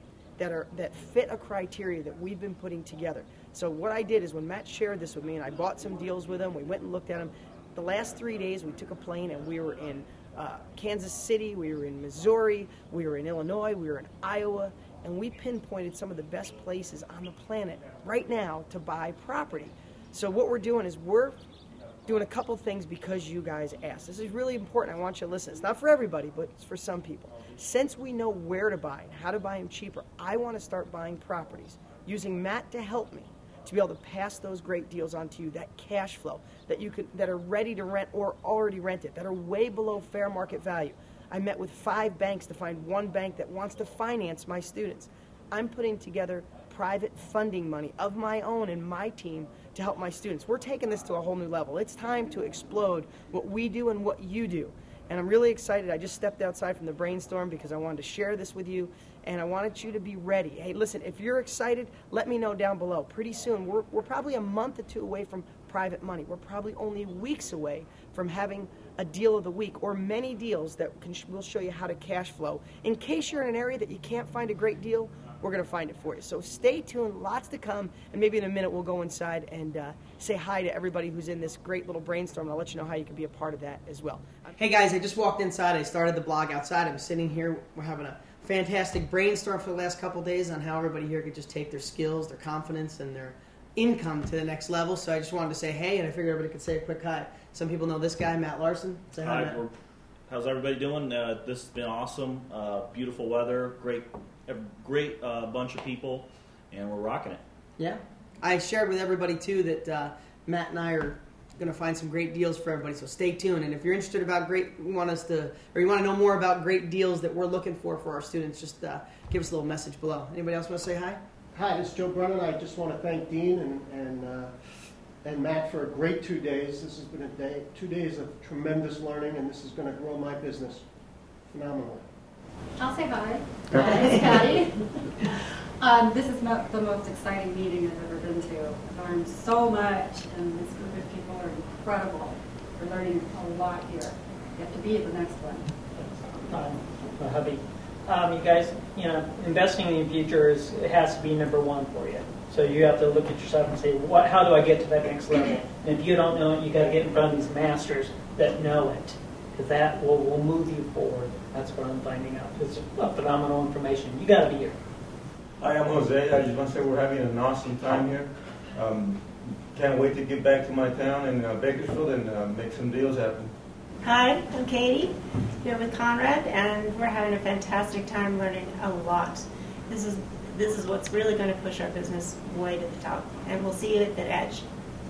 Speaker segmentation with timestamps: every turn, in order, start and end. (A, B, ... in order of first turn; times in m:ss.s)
0:00.4-0:21.4 A
0:22.1-1:39.6 A
1:39.2-1:39.7 B
1:40.3-1:47.4 B
1:47.8-2:01.2 A
2:01.6-2:04.6 C
2:05.2-2:10.9 C
2:11.5-2:12.0 C
2:12.8-2:25.7 D
2:26.0-2:44.8 E
2:45.6-2:53.5 F
2:54.0-3:04.6 G